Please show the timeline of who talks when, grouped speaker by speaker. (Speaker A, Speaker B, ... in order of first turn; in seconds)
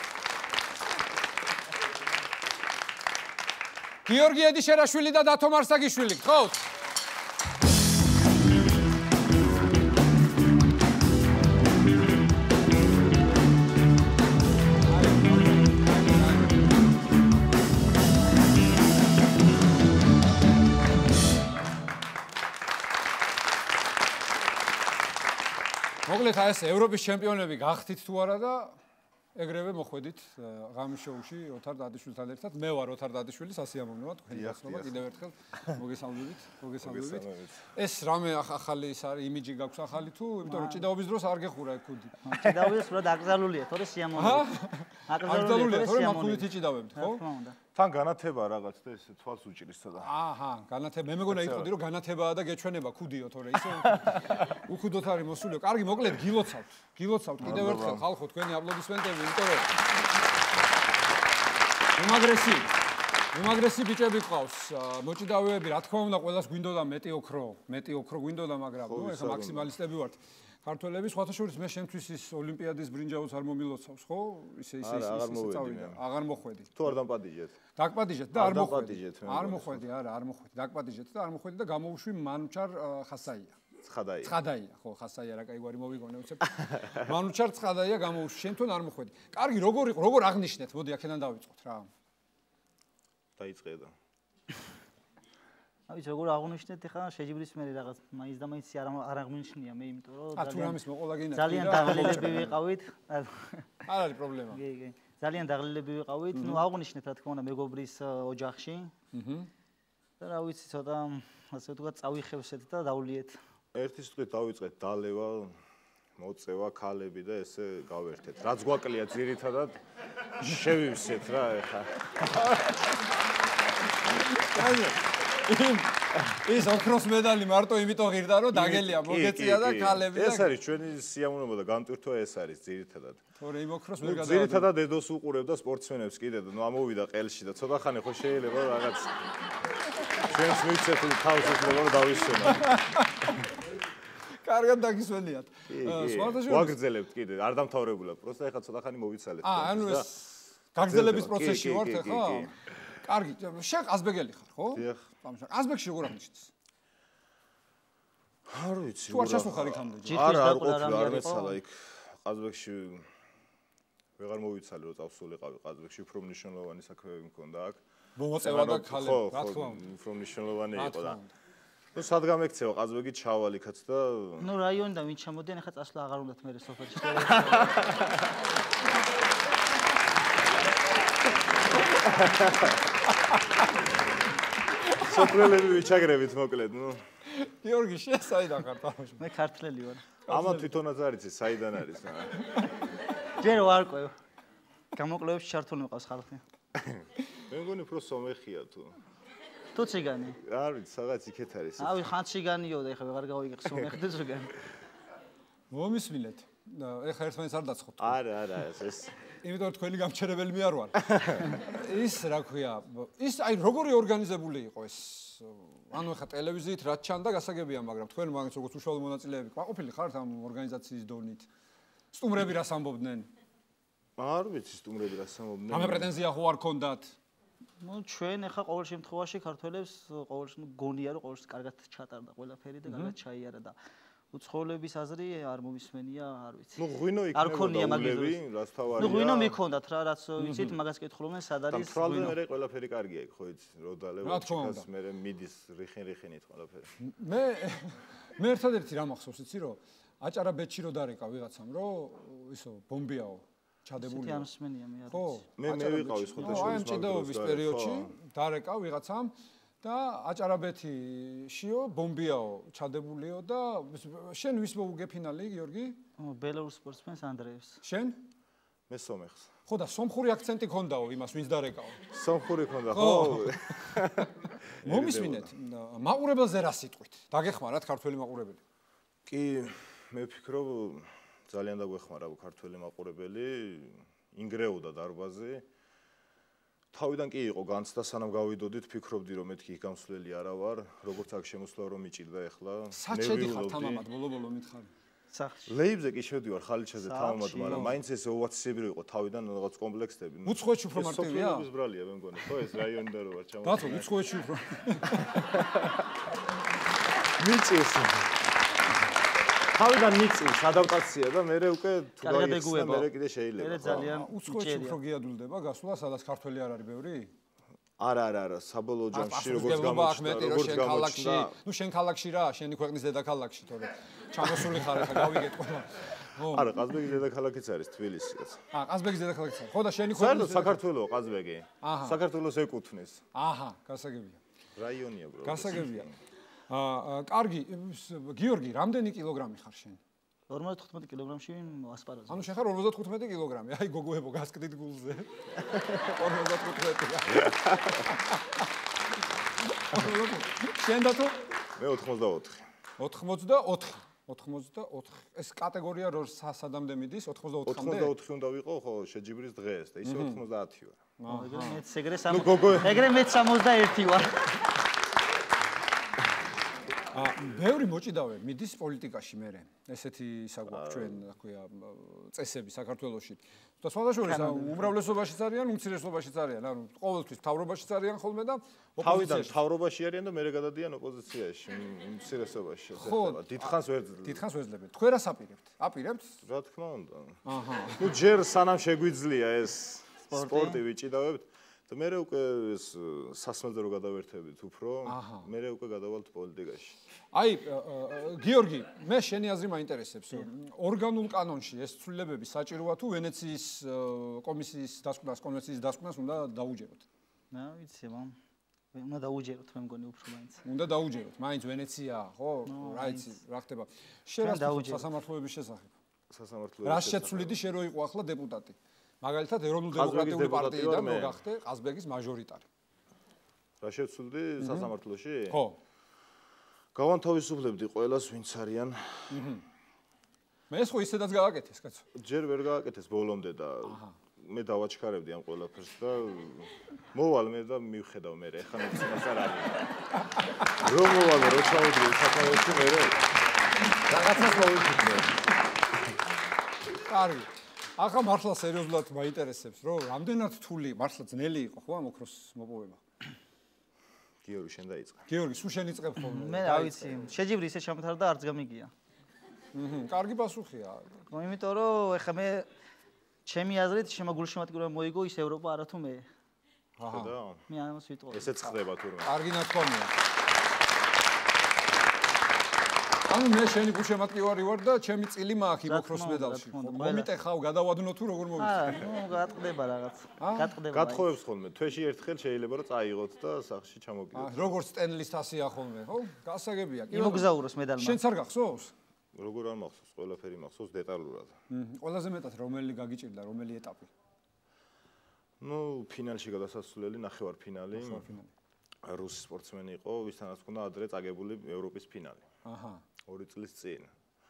Speaker A: 4.0-6.7, 14.8-16.7, 26.0-28.8, 29.3-42.4, 44.1-47.2, 50.0-59.7, 62.0-62.7, 63.3-76.9, 77.7-83.5, 84.2-91.9, 100.3-102.5, 103.8-104.6, 106.3-106.6, 109.1-109.5, 122.3-122.9, 124.0-130.6, 133.4-134.7, 142.5-143.6, 144.3-146.8, 149.4-156.5, 159.1-160.3, 168.2-169.9, 170.7-171.3, 184.8-185.1, 187.3-189.3, 190.2-190.8, 205.7-208.2, 209.4-221.5, 222.1-223.3, 225.7-227.1, 232.8-233.1, 240.4-240.8, 244.2-244.9, 247.0-254.5, 255.1-255.5, 256.3-266.0, 267.8-268.2, 269.6-272.0, 272.9-274.0, 274.8-278.6, 292.9-294.9, 297.6-297.9, 300.4-301.7, 303.6-305.4, 314.1-317.3, 319.1-326.9, 328.7-330.8, 331.8-332.2, 333.3-334.4, 335.4-336.1, 336.7-340.0, 342.3-348.6, 349.6-351.4, 353.0-358.1, 360.0-360.4, 361.2-361.8, 367.1-379.6, 383.0-383.7, 384.2-386.4, 387.4-388.2, 395.1-395.5, 397.3-407.0, 410.6-415.9, 416.8-422.6, 424.6-424.9, 425.5-425.8, 429.3-429.6, 430.7-432.0, 433.9-434.2, 447.0-453.0, 455.3-457.3, 459.7-461.2, 467.0-467.3, 469.2-470.1, 473.3-479.0, 480.4-480.8, 484.3-488.9, 491.7-494.1, 497.9-498.5, 502.6-503.0
Speaker B: 34.3-35.0, 36.8-37.6, 47.7-50.1, 51.3-51.7, 57.4-58.0, 68.8-69.7, 74.8-76.0, 76.8-77.5, 78.3-79.9, 83.8-84.3, 93.4-93.9, 113.7-115.5, 116.2-119.8, 120.4-122.1, 128.5-133.2, 134.0-139.1, 140.2-142.7, 145.7-150.1, 150.8-152.5, 154.7-155.1, 158.5-163.1, 164.2-167.8, 168.4-171.2, 171.9-174.5, 182.0-182.6, 185.0-187.0, 190.3-192.4, 196.8-199.0, 200.4-202.1, 208.0-209.1, 224.2-226.1, 236.8-239.6, 241.7-246.9, 255.6-258.1, 268.9-269.5, 272.1-275.5, 279.3-285.6, 286.9-294.0, 295.7-304.1, 305.5-305.9, 307.4-308.3, 309.7-314.2, 318.0-321.6, 326.5-328.6, 330.2-333.2, 334.8-336.1, 351.8-352.6, 357.6-361.0, 362.3-363.0, 370.7-371.2, 379.0-384.4, 386.4-387.4, 387.9-396.9, 416.3-417.6, 419.9-421.3, 423.8-425.6, 426.9-429.3, 432.1-439.9, 440.8-443.2, 444.1-445.3, 454.4-455.3, 467.1-467.6, 468.3-469.3, 480.9-484.7, 489.3-491.5, 495.6-498.2, 499.0-502.4, 503.3-504.1
Speaker C: 40.4-40.9, 42.2-47.6, 95.9-100.8, 101.3-103.7, 104.5-108.9, 110.2-113.3, 160.0-161.6, 174.4-178.1, 189.2-190.2, 193.4-194.1, 194.9-196.4, 199.7-200.4, 201.8-204.5, 227.8-233.8, 234.3-236.8, 237.3-238.4, 239.0-242.4, 254.0-256.3, 266.2-267.8, 295.3-295.7, 297.0-297.9, 312.2-315.0, 340.5-342.4, 361.3-364.6, 374.2-374.9, 390.3-390.8, 407.5-408.3, 408.9-410.6, 412.6-413.3, 414.4-415.1, 456.1-458.9, 461.3-462.6, 463.4-466.2, 467.7-468.7, 475.9-477.3, 478.6-481.3, 487.1-488.2